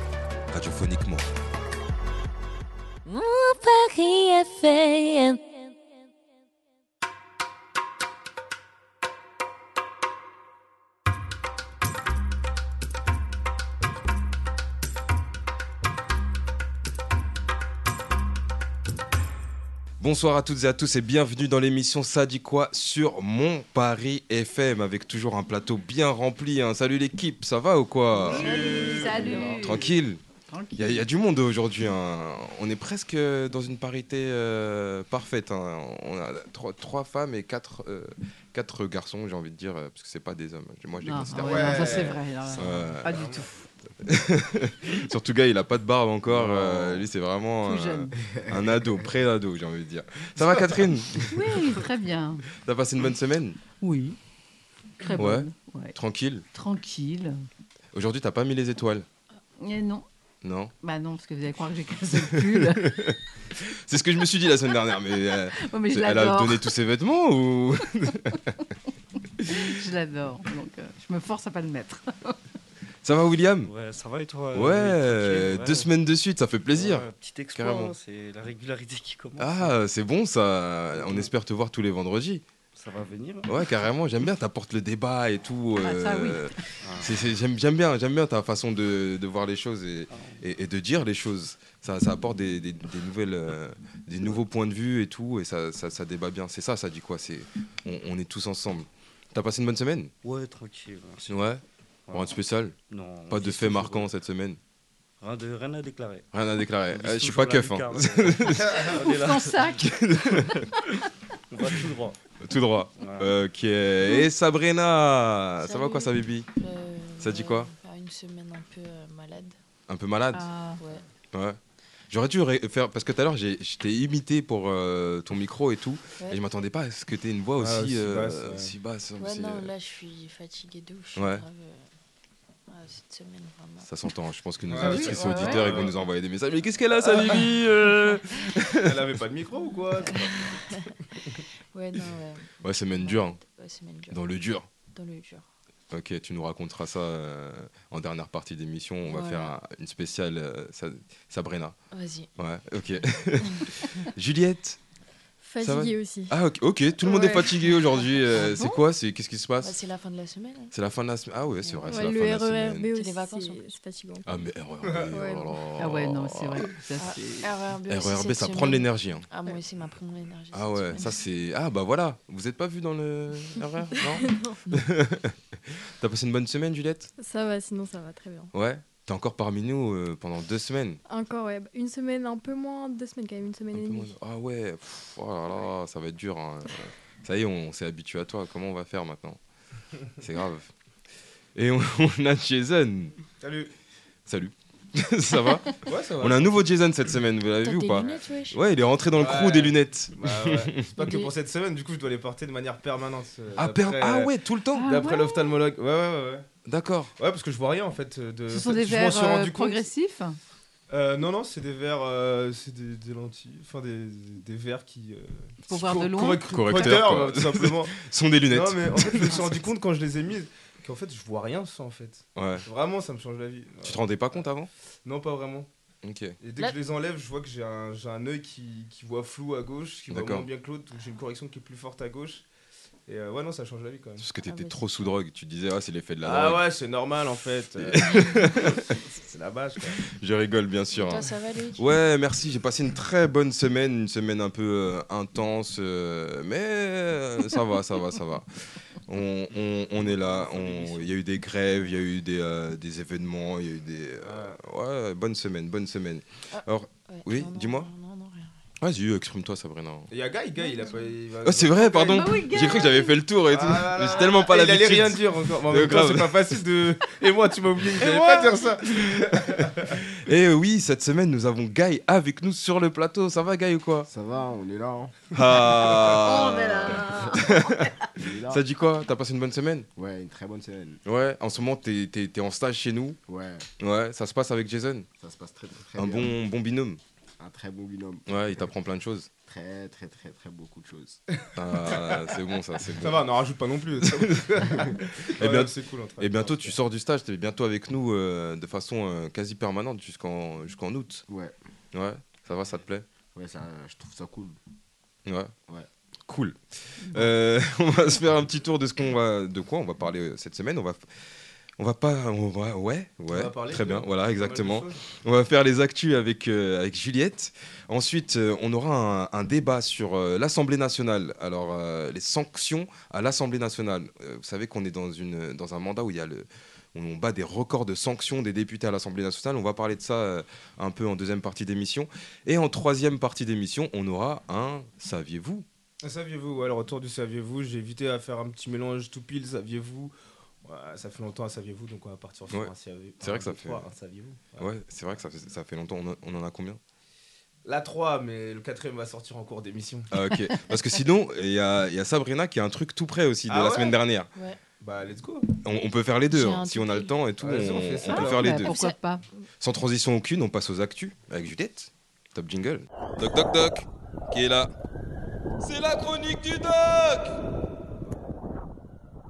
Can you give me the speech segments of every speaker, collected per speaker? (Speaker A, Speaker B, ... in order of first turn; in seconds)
Speaker A: 0.5-1.3, 20.0-30.2, 30.8-43.1, 44.0-51.6, 52.6-53.6, 55.1-56.5, 57.9-59.0, 60.4-60.7, 62.1-68.6, 73.0-73.7, 74.5-78.0, 79.4-82.4, 83.5-100.1, 101.3-102.8, 103.3-104.6, 106.3-109.0, 109.7-110.6, 112.4-116.5, 117.2-117.7, 119.9-120.5, 121.3-121.6, 122.1-129.7, 131.2-131.4, 133.8-138.8, 142.6-143.4, 144.1-144.7, 145.9-151.8, 152.4-154.8, 155.6-159.8, 160.7-162.9, 164.2-166.6, 167.9-169.2, 170.5-177.1, 178.5-181.0, 183.7-189.4, 190.2-190.7, 191.5-193.1, 194.3-201.1, 203.6-204.9, 206.7-207.1, 216.4-219.5, 222.3-222.6, 223.8-224.7, 226.0-226.4, 230.1-230.5, 234.2-236.7, 237.8-238.8, 240.1-257.9, 258.8-260.1, 261.4-266.9, 267.8-274.1, 275.3-277.9, 278.4-279.9, 281.0-283.2, 283.8-285.1, 286.0-287.0, 288.3-289.3, 291.6-293.2, 294.0-301.2, 301.9-303.1, 305.2-305.5, 306.3-311.1, 311.8-335.6, 343.2-343.8, 344.6-346.8, 350.1-354.3, 355.6-358.7, 359.6-364.7, 365.6-367.4
Speaker B: 3.0-5.7
Speaker C: 28.2-29.9, 30.5-31.1, 41.0-43.7, 47.6-48.1, 51.3-52.4, 53.8-54.2, 55.0-56.0, 56.5-57.4, 59.6-60.0, 60.8-63.1, 65.6-66.7, 69.5-72.4, 85.8-86.5, 108.9-109.9, 120.3-120.8, 134.8-135.6, 158.3-158.8, 165.8-167.5, 204.7-205.5, 208.5-210.4, 215.7-217.0, 262.0-263.1, 358.1-359.2
Speaker D: 28.3-29.6, 41.8-42.1, 43.1-43.4, 127.6-128.7, 134.6-135.9, 137.0-137.4, 138.7-140.7, 193.4-193.7, 195.8-196.5, 199.2-206.5, 207.2-209.8, 210.9-218.0, 218.5-224.1, 225.0-225.7, 226.4-232.4, 233.1-234.3, 236.2-240.0, 254.2-254.6, 260.1-262.3, 263.4-270.0, 291.5-292.3, 292.9-296.8, 313.3-315.0, 336.0-340.1, 340.6-344.7, 347.6-350.1, 353.5-354.0, 354.8-355.5, 357.4-358.6
Speaker E: 41.4-42.2, 48.3-49.1, 274.1-278.6, 279.9-281.0, 283.3-283.7, 285.2-286.3, 287.4-288.7, 289.4-291.2, 301.3-301.5, 303.3-304.6
Speaker F: 73.6-75.9, 76.7-79.7, 80.9-81.3, 82.7-83.7, 86.8-87.1, 90.1-90.4, 100.2-101.5, 102.1-104.1, 105.2-106.2, 106.9-110.6, 111.5-112.2, 113.0-113.4
Speaker G: 115.6-119.5, 120.8-121.0, 129.2-131.8, 132.7-133.9, 140.1-140.9, 141.7-144.2, 144.9-145.4, 149.1-149.5, 151.9-152.3, 157.2-158.0, 159.6-160.7, 161.6-162.1, 162.9-163.6, 167.0-171.2, 197.6-198.6, 201.0-201.3, 234.4-234.8, 240.9-241.8, 256.5-258.6, 354.3-354.6, 356.3-357.1, 358.7-358.9
Speaker H: 155.4-156.3, 157.2-157.4, 161.9-164.2, 165.1-165.5, 174.0-174.6, 177.2-178.5, 181.1-184.1